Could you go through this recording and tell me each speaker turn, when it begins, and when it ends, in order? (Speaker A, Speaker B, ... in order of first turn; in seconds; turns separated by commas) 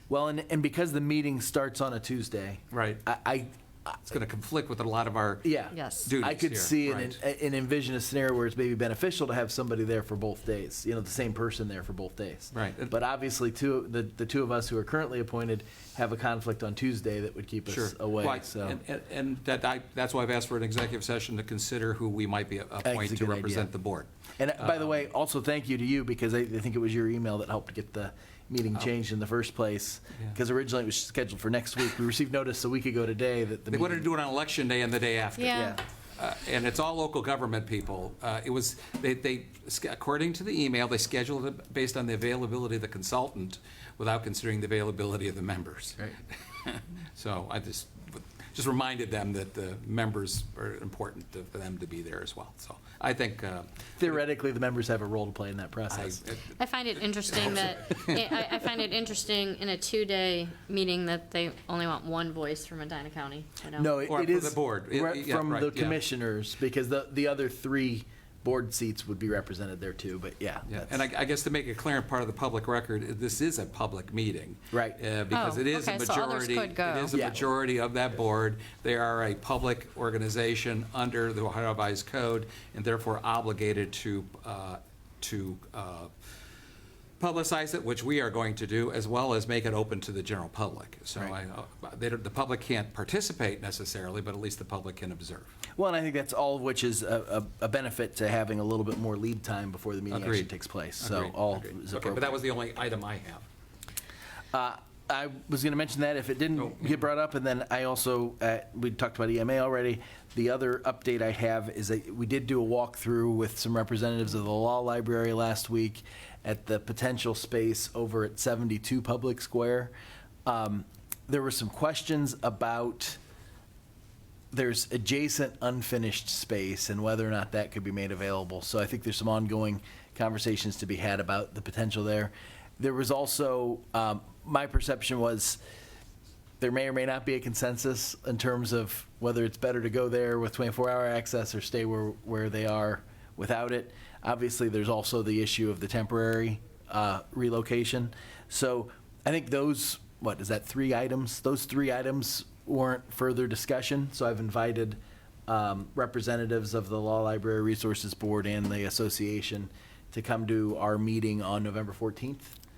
Speaker A: 0.1-4.0, Speaker B: 2.7-3.0, Speaker B: 4.1-5.5, Speaker A: 5.4-18.8, Speaker C: 5.7-6.1, Speaker B: 6.0-7.2, Speaker B: 12.5-13.0, Speaker B: 17.7-25.0, Speaker A: 22.8-23.7, Speaker A: 24.4-34.1, Speaker B: 33.7-54.2, Speaker C: 35.4-35.8, Speaker A: 35.5-35.8, Speaker A: 54.0-56.2, Speaker B: 55.9-56.6, Speaker C: 56.6-64.0, Speaker B: 57.1-58.7, Speaker A: 63.8-71.0, Speaker B: 64.1-66.0, Speaker B: 70.7-86.1, Speaker A: 74.7-75.0, Speaker C: 75.3-77.2, Speaker A: 77.1-77.5, Speaker B: 87.2-95.5, Speaker A: 95.8-102.4, Speaker B: 100.1-100.5, Speaker B: 101.0-103.5, Speaker A: 104.5-119.9, Speaker B: 106.6-107.0, Speaker A: 120.5-123.2, Speaker A: 124.5-135.6, Speaker A: 136.6-162.6